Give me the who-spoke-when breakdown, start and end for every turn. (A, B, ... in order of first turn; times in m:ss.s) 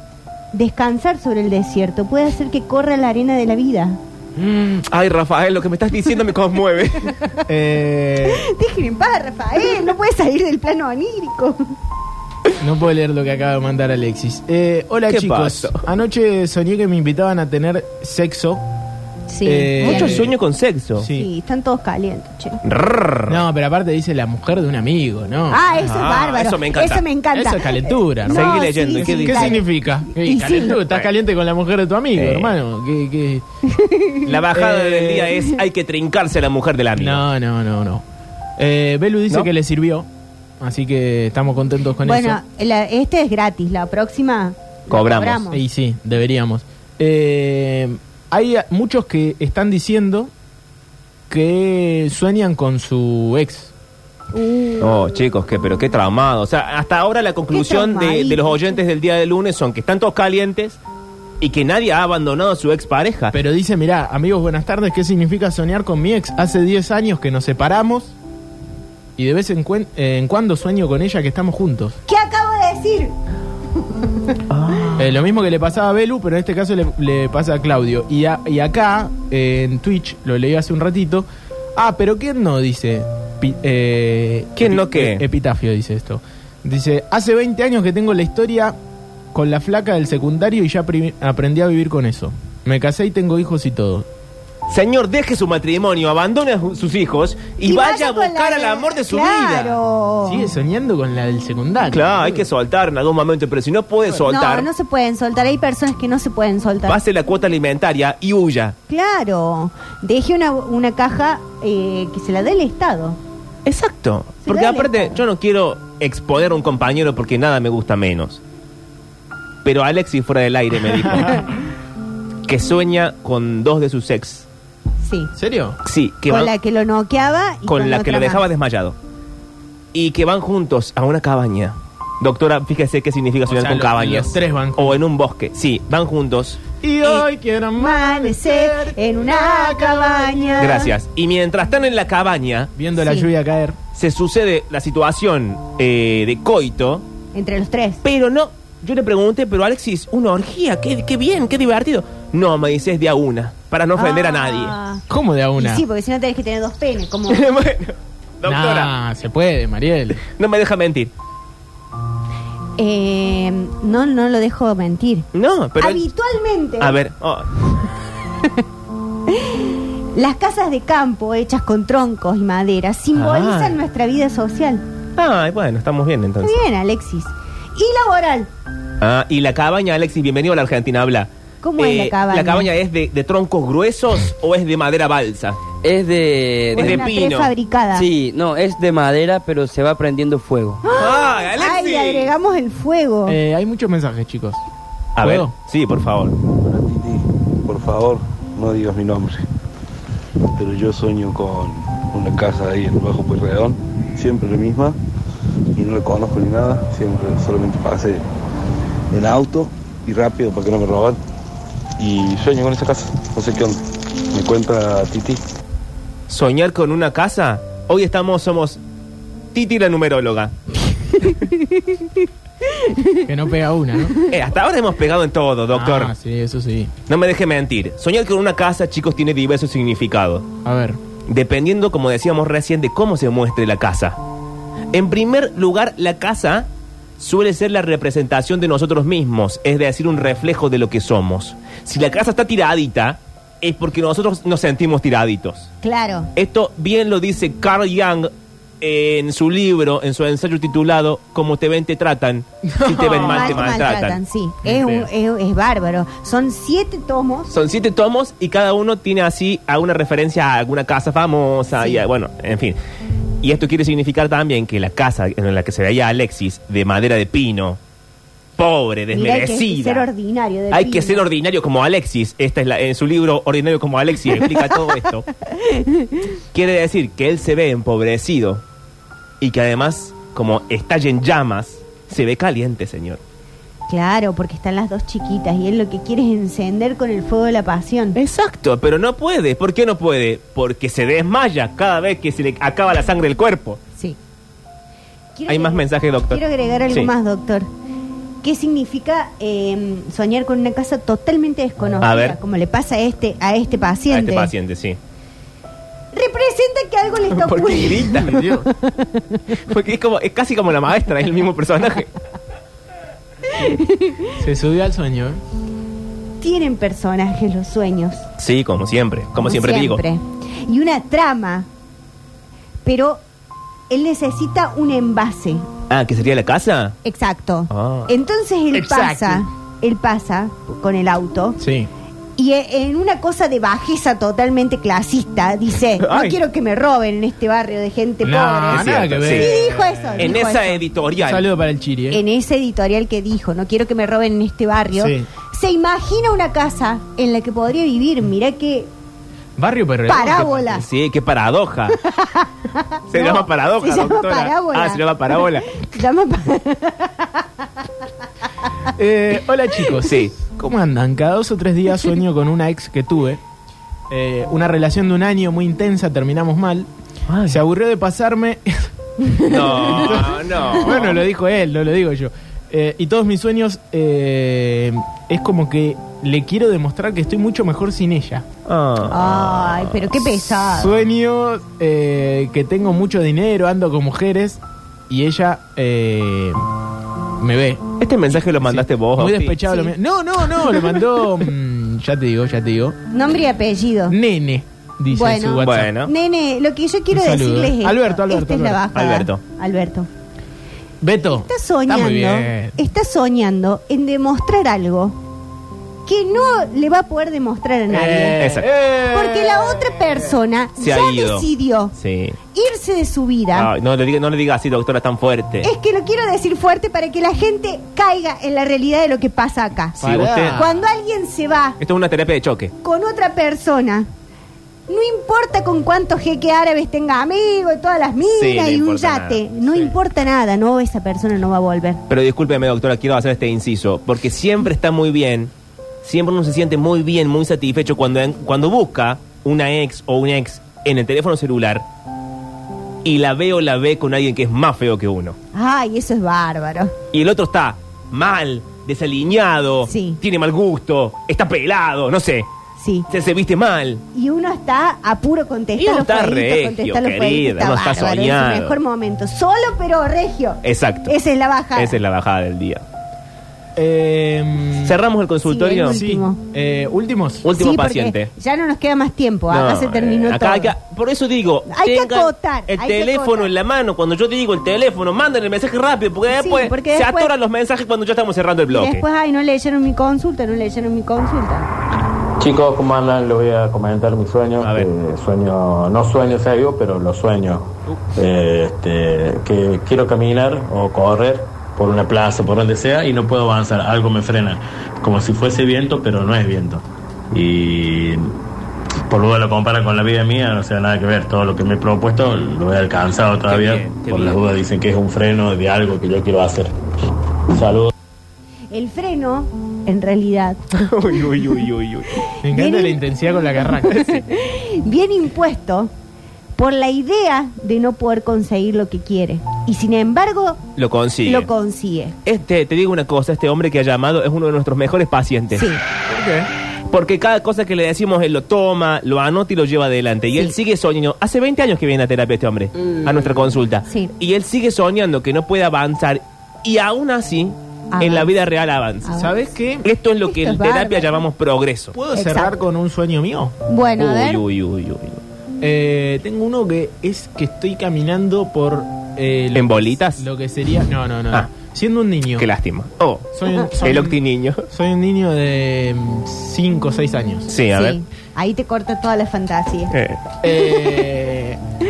0:00.5-0:04.0 A
0:04.4-0:04.8 B
0:04.5-0:07.2 C
0:07.5-0:08.4 B
0:08.2-0:11.6 A
0:12.6-0:18.6 B
0:15.1-0:15.9 C
0:19.3-0:20.2 A
0:19.4-0:20.3 B
0:19.8-0:21.1 C
0:21.0-0:21.3 B
0:21.0-0:22.6 A
0:22.6-0:23.4 C
0:23.3-0:25.7 B
0:25.5-0:30.8 A
0:25.8-0:27.0 C
0:27.3-0:33.4 B
0:28.3-0:29.6 C
0:30.7-0:31.1 C
0:32.1-0:32.6 C
0:33.6-0:34.4 A
0:34.2-0:37.2 C
0:34.5-0:35.3 B
0:37.0-0:38.0 B
0:38.6-0:40.1 B
0:40.6-0:42.4 B
0:42.0-0:45.6 A
0:44.9-0:45.4 C
0:45.5-0:50.3 B
0:51.3-0:53.7 B
0:54.3-0:55.0 A
0:54.8-1:00.8 C
0:57.5-0:58.8 A
1:01.4-1:03.3 C
1:03.3-1:08.1 B
1:09.2-1:12.0 B
1:12.1-1:13.1 A
1:14.0-1:14.3 A
1:14.5-1:15.2 C
1:15.0-1:28.8 B
1:24.6-1:25.2 C
1:29.3-1:34.0 B
1:34.7-1:39.8 C
1:37.6-1:40.4 A
1:40.2-1:42.4 B
1:41.9-1:44.7 C
1:44.2-1:47.0 A
1:46.9-1:48.8 C
1:48.9-1:53.2 A
1:53.6-1:58.4 C
1:54.4-1:55.2 A
1:59.6-2:01.5 C
2:02.4-2:04.4 C
2:05.0-2:05.3 A
2:05.4-2:05.8 B
2:05.8-2:06.5 C
2:06.3-2:08.4 A
2:07.7-2:09.0 C
2:09.9-2:16.6 C
2:13.5-2:15.0 B
2:16.8-2:20.8 B
2:17.8-2:20.9 A
2:20.6-2:22.7 C
2:22.8-2:23.8 B
2:23.0-2:23.3 A
2:23.9-2:27.0 C
2:27.3-2:28.0 A
2:28.0-2:34.7 C
2:34.0-2:35.0 A
2:35.1-2:35.8 B
2:35.6-2:37.5 A
2:37.3-2:38.9 C
2:38.4-2:40.2 B
2:40.2-2:41.1 C
2:42.8-2:45.2 A
2:45.3-2:46.0 C
2:45.8-2:47.0 A
2:46.8-2:47.6 C
2:49.3-2:54.8 A
2:53.1-2:53.8 C
2:55.2-2:56.6 C
2:56.4-2:58.5 A
2:59.0-3:05.6 C
3:01.6-3:02.7 A
3:05.8-3:07.0 D
3:06.7-3:08.1 A
3:06.7-3:07.5 C
3:07.9-3:10.8 D
3:10.8-3:13.4 A
3:10.9-3:12.3 C
3:13.3-3:14.6 B
3:15.2-3:16.4 C
3:15.2-3:15.5 B
3:16.5-3:19.4 E
3:20.6-3:25.0 E
3:25.8-3:28.2 E
3:29.1-3:31.2 E
3:32.0-3:33.8 E
3:34.3-3:35.4 E
3:36.3-3:38.8 C
3:39.5-3:40.5 C
3:42.8-3:43.2 A
3:43.2-3:44.2 B
3:44.2-3:46.1 C
3:45.7-3:46.9 B
3:47.1-3:50.5 C
3:50.6-3:51.0 B
3:51.3-3:54.2 C
3:54.9-3:56.7 C
3:57.2-4:05.7 C
4:05.8-4:06.3 A
4:06.3-4:08.3 C
4:08.8-4:14.2 C
4:12.7-4:13.8 B
4:13.1-4:17.5 A
4:14.6-4:15.1 B
4:17.5-4:22.8 C
4:21.7-4:22.0 A
4:23.4-4:27.8 C
4:28.6-4:30.1 C
4:29.1-4:31.2 A
4:30.7-4:35.2 C
4:35.5-4:36.3 A
4:36.5-4:38.6 C
4:39.4-4:43.2 C
4:43.9-4:48.2 A
4:48.1-4:53.8 C
4:55.4-4:57.7 A
4:55.5-4:57.1 C
4:58.4-5:04.5 A
5:02.0-5:02.4 C
5:04.1-5:05.0 C
5:06.1-5:09.2 A
5:07.3-5:08.4 C
5:08.2-5:08.6 B
5:09.7-5:12.1 C
5:13.5-5:14.4 A
5:14.4-5:15.4 B
5:16.4-5:18.2 A
5:18.4-5:20.0 C
5:19.4-5:21.7 A
5:22.8-5:23.2 A
5:23.9-5:25.6 A
5:25.9-5:27.0 C
5:27.0-5:31.6 A
5:27.7-5:28.1 C
5:28.7-5:29.4 B
5:31.6-5:31.9 B
5:32.4-5:40.8 A
5:36.0-5:36.4 C
5:38.2-5:40.4 B
5:38.7-5:39.5 C
5:40.2-5:41.5 C
5:41.2-5:42.2 B
5:42.1-5:48.9 A
5:44.9-5:45.3 B
5:49.6-5:50.6 B
5:50.1-5:50.8 A
5:50.2-5:52.0 C
5:52.0-5:57.4 A
5:53.1-5:55.7 C
5:58.9-6:03.4 B
6:00.0-6:00.3 C
6:04.1-6:06.9 B
6:07.3-6:07.6 C
6:07.5-6:18.4 B
6:09.2-6:10.1 A
6:09.5-6:11.2 C
6:18.6-6:20.0 C
6:19.1-6:21.0 A
6:20.4-6:26.6 B
6:27.4-6:33.0 B
6:28.0-6:29.6 C
6:29.6-6:29.9 A
6:33.1-6:34.2 A
6:34.1-6:35.9 B
6:35.1-6:40.1 A
6:35.6-6:36.1 C
6:37.1-6:38.9 B
6:38.9-6:39.4 C
6:41.0-6:42.8 B
6:41.3-6:45.2 A
6:46.0-6:48.4 A
6:47.9-6:50.2 B
6:48.4-6:48.7 C
6:49.1-6:51.9 A
6:50.8-6:52.4 C
6:52.5-6:53.7 A
6:53.5-6:55.7 C
6:55.6-7:00.0 A
7:00.0-7:00.8 B
7:00.0-7:00.6 C
7:00.5-7:01.8 A
7:01.8-7:02.7 C
7:02.8-7:04.1 A
7:04.9-7:12.0 A
7:08.4-7:09.5 C
7:09.7-7:09.9 B
7:12.1-7:15.5 C
7:16.0-7:21.8 C
7:23.0-7:25.4 C
7:25.5-7:26.9 A
7:27.1-7:32.5 C
7:29.8-7:30.2 A
7:32.8-7:33.1 A
7:33.1-7:34.0 C
7:34.1-7:42.0 A
7:35.8-7:38.8 C
7:40.6-7:41.1 C
7:41.7-7:42.8 C
7:43.8-7:45.0 B
7:44.8-7:46.0 C
7:45.4-7:46.4 A
7:45.9-7:47.4 B
7:47.4-7:48.3 C
7:47.4-7:50.7 A
7:49.5-7:59.0 C
7:51.7-7:53.5 A
7:56.3-7:57.3 A
7:58.7-8:01.7 A
8:02.4-8:18.3 F
8:04.6-8:04.9 C
8:19.0-8:26.7 F
8:23.5-8:24.4 C
8:27.5-8:27.9 F
8:28.7-8:30.6 A
8:30.7-8:32.2 C
8:32.4-8:34.2 B
8:32.5-8:33.0 A
8:33.6-8:35.9 A
8:36.6-8:40.6 A
8:40.8-8:41.5 C
8:41.2-8:42.2 A
8:42.2-8:45.7 C
8:45.5-8:45.8 A
8:46.1-8:46.5 B
8:46.9-8:59.2 C
8:53.8-8:54.1 A
8:57.9-8:58.3 A
8:59.0-8:59.3 A
8:59.1-8:59.8 B
8:59.8-9:02.0 C
9:00.3-9:01.1 A
9:01.9-9:03.5 B
9:02.1-9:02.6 A
9:03.7-9:04.4 A
9:04.0-9:05.2 C
9:05.6-9:12.4 B
9:09.5-9:10.2 C
9:12.4-9:14.6 C
9:13.3-9:14.2 B
9:14.7-9:17.5 B
9:17.5-9:18.0 C
9:17.7-9:19.9 A
9:19.9-9:20.2 C
9:20.4-9:21.6 B